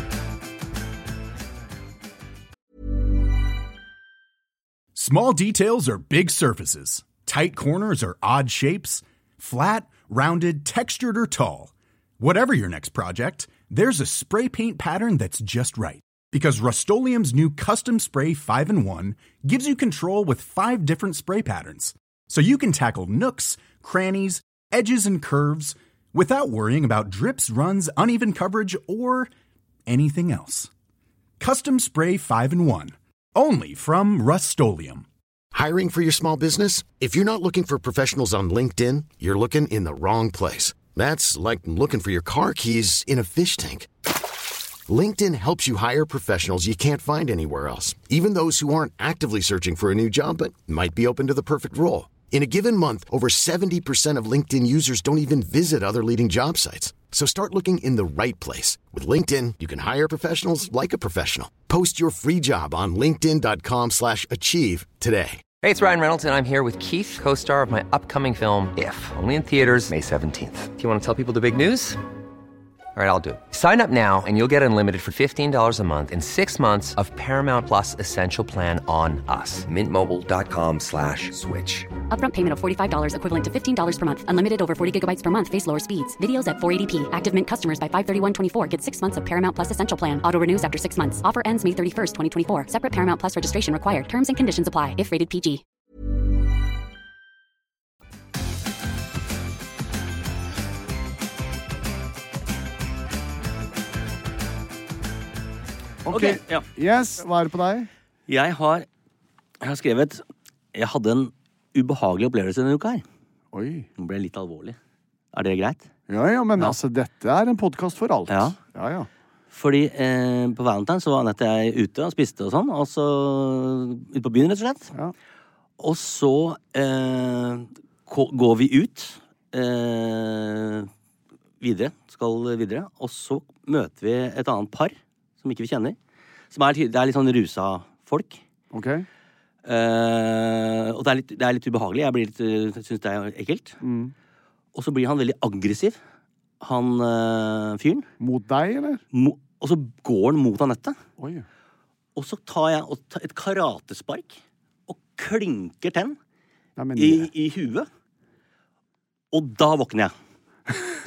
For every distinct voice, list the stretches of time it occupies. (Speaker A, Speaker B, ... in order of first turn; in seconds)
Speaker A: 4.9-29.3, 29.9-30.7, 31.4-35.0
Speaker B: 35.5-43.9, 44.9-65.4
Speaker C: 65.6-72.0, 72.9-81.9
Speaker D: 82.1-95.6
Speaker E: 106.0-107.9, 113.5-113.9, 116.1-119.1, 138.7-139.1, 143.8-144.1, 148.2-149.0, 151.2-151.4, 156.8-157.3
Speaker F: 106.1-106.7, 108.3-108.9, 109.6-113.0, 114.0-114.8, 115.3-115.9, 118.3-118.5, 119.5-124.9, 125.8-130.9, 131.6-136.0, 136.5-138.4, 139.6-143.8, 144.7-146.0, 146.6-148.1, 149.1-151.0, 152.2-156.2, 156.9-157.9, 159.3-160.1